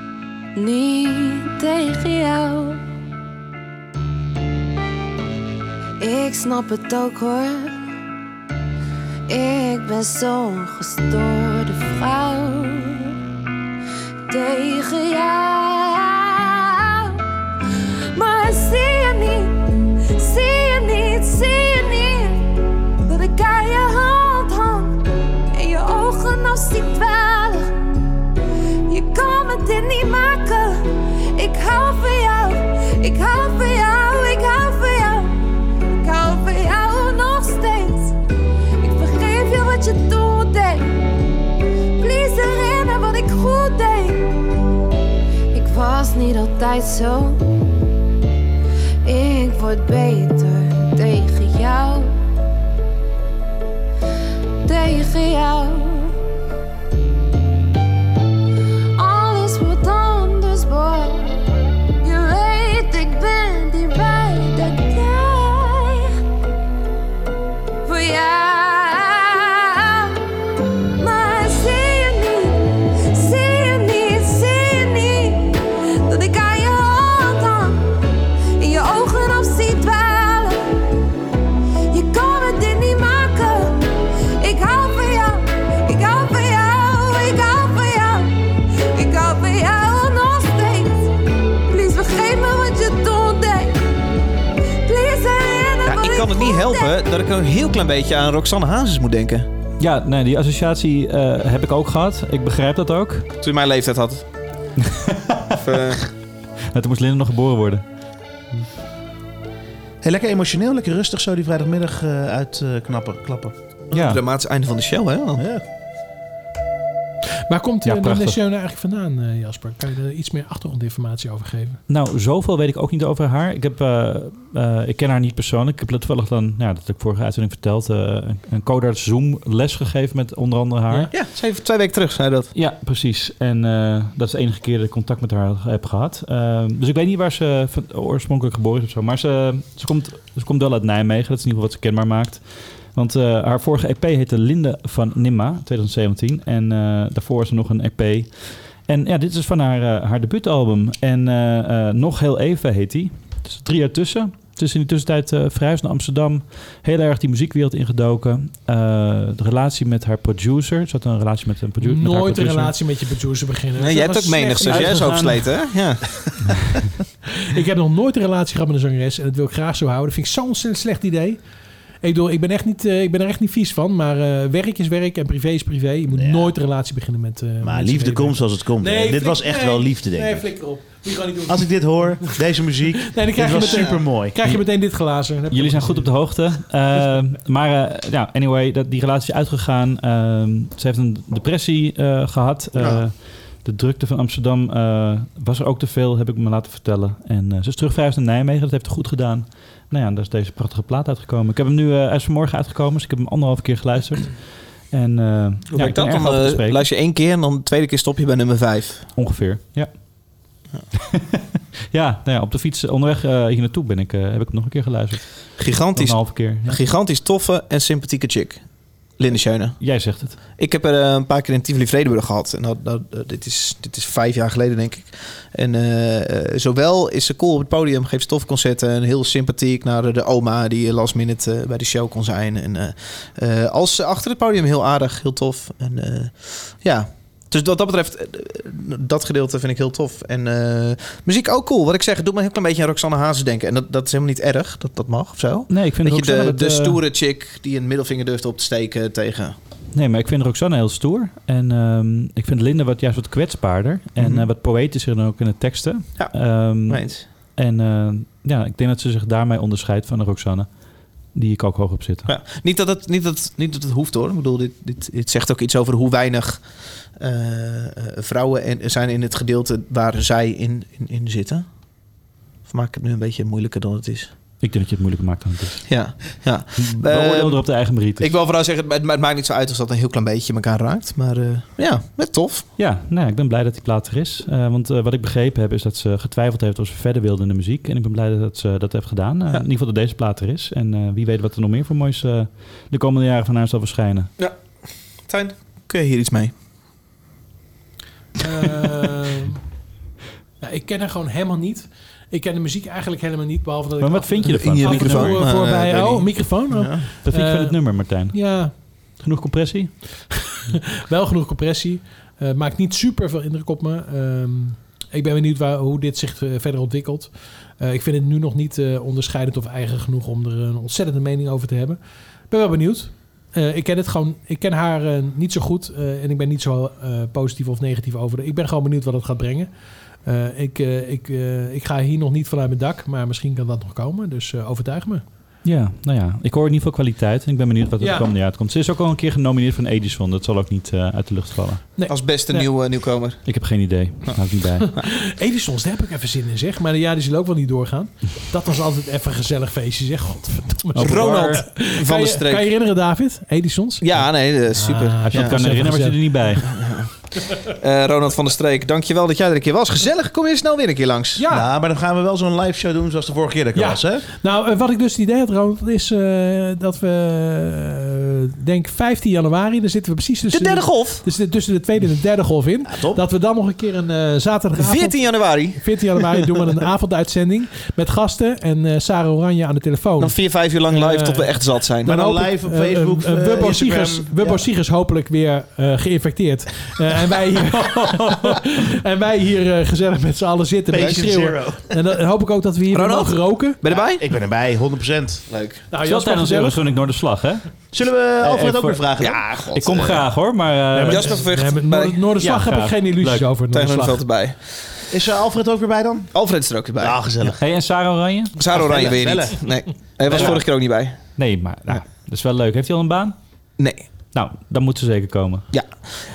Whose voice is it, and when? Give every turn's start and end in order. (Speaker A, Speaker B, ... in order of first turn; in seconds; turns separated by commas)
Speaker A: 0.6-2.8, Speaker A: 6.0-7.8, Speaker A: 9.3-13.1, Speaker A: 14.3-17.2, Speaker A: 18.1-27.7, Speaker A: 28.9-30.8, Speaker A: 31.3-35.4, Speaker A: 36.0-38.1, Speaker A: 38.8-41.0, Speaker A: 42.0-44.5, Speaker A: 45.5-47.4, Speaker A: 49.0-52.1, Speaker A: 54.6-56.1, Speaker A: 59.0-61.4, Speaker A: 62.0-66.2, Speaker A: 67.8-70.2, Speaker A: 71.0-77.9, Speaker A: 78.6-80.6, Speaker A: 81.9-83.9, Speaker A: 84.4-88.4, Speaker A: 88.9-91.2, Speaker A: 91.7-93.8, Speaker A: 94.8-97.0, Speaker B: 95.8-99.5, Speaker C: 99.8-103.3, Speaker B: 103.4-104.2, Speaker C: 104.8-105.6, Speaker B: 105.5-106.1, Speaker C: 106.7-107.8, Speaker D: 110.0-113.5, Speaker B: 113.9-115.4, Speaker C: 113.9-114.2, Speaker D: 115.4-115.6, Speaker E: 117.5-121.8, Speaker C: 117.8-118.4, Speaker C: 121.9-131.1, Speaker B: 131.1-132.5, Speaker C: 132.5-142.4, Speaker C: 142.9-162.7, Speaker E: 161.8-165.4, Speaker B: 163.8-166.7, Speaker C: 164.7-165.3, Speaker E: 167.3-171.4, Speaker E: 172.0-182.4, Speaker D: 176.1-176.5, Speaker D: 177.6-180.4, Speaker D: 181.5-184.4, Speaker E: 183.0-186.1, Speaker C: 185.5-206.8, Speaker B: 205.7-209.1, Speaker C: 209.2-209.9, Speaker C: 210.9-216.8, Speaker B: 215.6-218.6, Speaker B: 219.2-219.8, Speaker C: 219.8-220.3, Speaker B: 220.6-249.6, Speaker C: 245.7-247.0, Speaker C: 249.9-260.7, Speaker B: 254.2-254.5, Speaker B: 256.2-257.2, Speaker C: 261.3-262.3, Speaker B: 262.2-266.6, Speaker B: 267.2-271.6, Speaker B: 272.7-274.3, Speaker C: 274.6-278.3, Speaker B: 275.9-277.6, Speaker B: 278.2-282.7, Speaker C: 282.8-294.3, Speaker B: 295.2-296.5, Speaker E: 298.4-299.6, Speaker E: 300.6-308.7, Speaker C: 304.0-305.5, Speaker B: 304.5-307.0, Speaker C: 307.2-308.5, Speaker C: 309.2-309.9, Speaker E: 310.7-322.0, Speaker E: 322.5-329.7, Speaker E: 330.2-335.2, Speaker C: 335.6-341.8, Speaker E: 338.0-338.3, Speaker E: 342.0-342.7, Speaker B: 342.1-343.4, Speaker C: 343.4-344.9, Speaker E: 344.8-356.6, Speaker C: 350.9-351.6, Speaker B: 350.9-352.7, Speaker B: 354.0-355.6, Speaker C: 355.3-356.7, Speaker B: 356.6-361.4, Speaker E: 361.4-361.7, Speaker D: 361.5-364.3, Speaker E: 363.7-380.3, Speaker B: 370.5-371.2, Speaker D: 372.9-373.2, Speaker B: 374.8-376.4, Speaker B: 380.2-382.2, Speaker E: 380.9-381.5, Speaker D: 382.0-384.6, Speaker E: 382.0-393.8, Speaker D: 390.9-392.0, Speaker B: 391.0-391.2, Speaker B: 392.9-394.2, Speaker D: 393.9-395.4, Speaker B: 395.5-395.8, Speaker E: 395.9-396.8, Speaker C: 396.0-397.7, Speaker D: 397.9-400.0, Speaker C: 398.4-399.0, Speaker B: 399.2-400.2, Speaker C: 399.7-401.4, Speaker D: 400.9-401.3, Speaker B: 401.0-402.2, Speaker E: 401.3-404.2, Speaker C: 402.4-403.4, Speaker B: 403.7-404.8, Speaker D: 405.1-406.3, Speaker B: 406.3-407.2, Speaker D: 407.0-407.6, Speaker C: 407.6-408.6, Speaker B: 408.6-411.2, Speaker D: 408.6-409.6, Speaker D: 410.2-410.6, Speaker C: 410.3-410.6, Speaker C: 411.4-413.3, Speaker B: 413.8-414.1, Speaker C: 414.3-415.6, Speaker B: 415.7-416.1